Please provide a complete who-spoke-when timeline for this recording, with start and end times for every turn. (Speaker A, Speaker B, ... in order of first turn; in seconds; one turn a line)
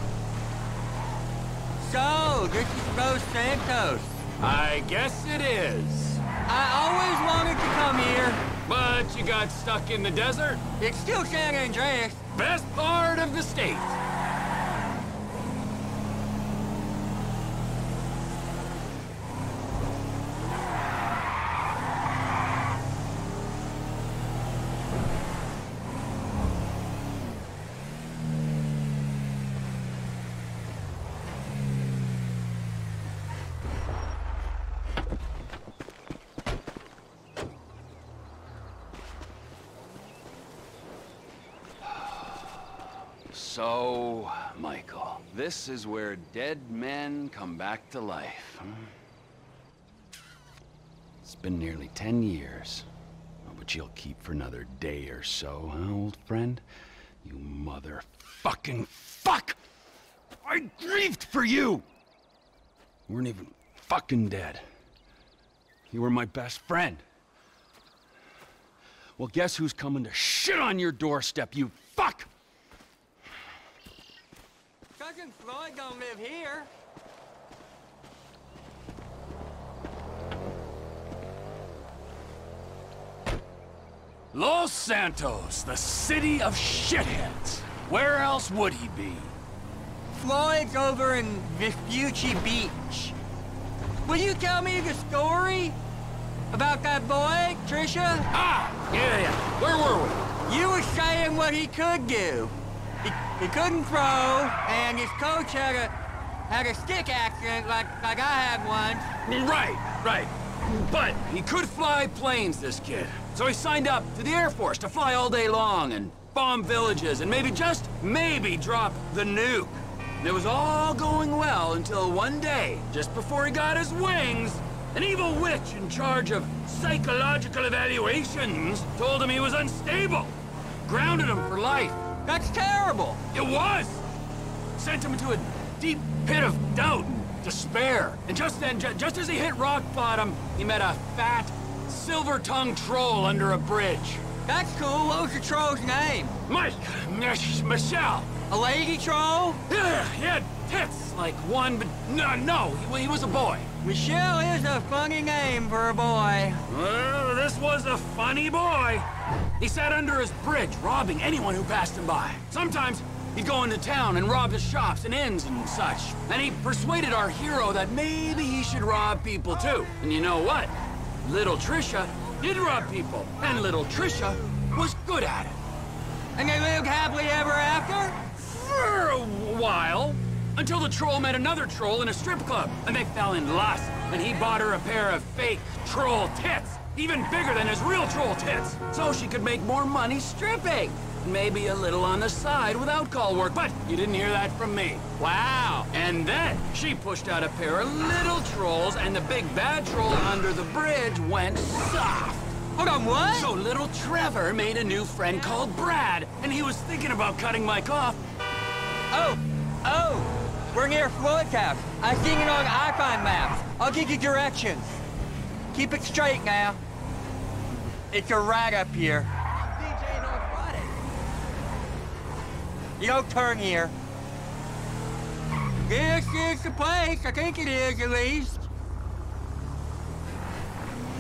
Speaker A: 1.8-4.2
Speaker B: 4.4-6.2
Speaker A: 6.5-8.4
Speaker B: 8.7-10.6
Speaker A: 10.8-12.2
Speaker B: 12.3-14.0
Speaker B: 41.8-42.2
Speaker B: 43.3-48.9
Speaker B: 51.2-52.9
Speaker B: 53.4-56.6
Speaker B: 57.2-59.6
Speaker B: 60.4-61.9
Speaker B: 63.1-64.6
Speaker B: 65.9-67.0
Speaker B: 69.2-72.3
Speaker A: 75.0-76.7
Speaker B: 84.3-89.4
Speaker A: 90.1-93.2
Speaker A: 94.0-95.8
Speaker A: 96.5-98.3
Speaker B: 98.3-100.3
Speaker A: 100.5-105.9
Speaker A: 106.5-109.1
Speaker B: 109.3-132.0
Speaker A: 132.2-133.2
Speaker B: 133.3-134.1
Speaker B: 134.8-144.2
Speaker A: 144.5-146.4
Speaker B: 146.5-148.3
Speaker A: 148.5-149.6
Speaker B: 149.7-153.7
Speaker A: 153.8-156.6
Speaker B: 156.7-159.1
Speaker B: 159.6-175.6
Speaker A: 176.4-178.2
Speaker B: 178.3-195.1
Speaker A: 195.2-195.9
Speaker B: 195.9-202.6
Speaker A: 202.8-203.5
Speaker B: 203.3-208.2
Speaker A: 205.3-205.7
Speaker A: 209.1-215.0
Speaker A: 215.7-216.8
Speaker A: 218.1-221.0
Speaker A: 223.0-223.9
Speaker A: 225.8-228.7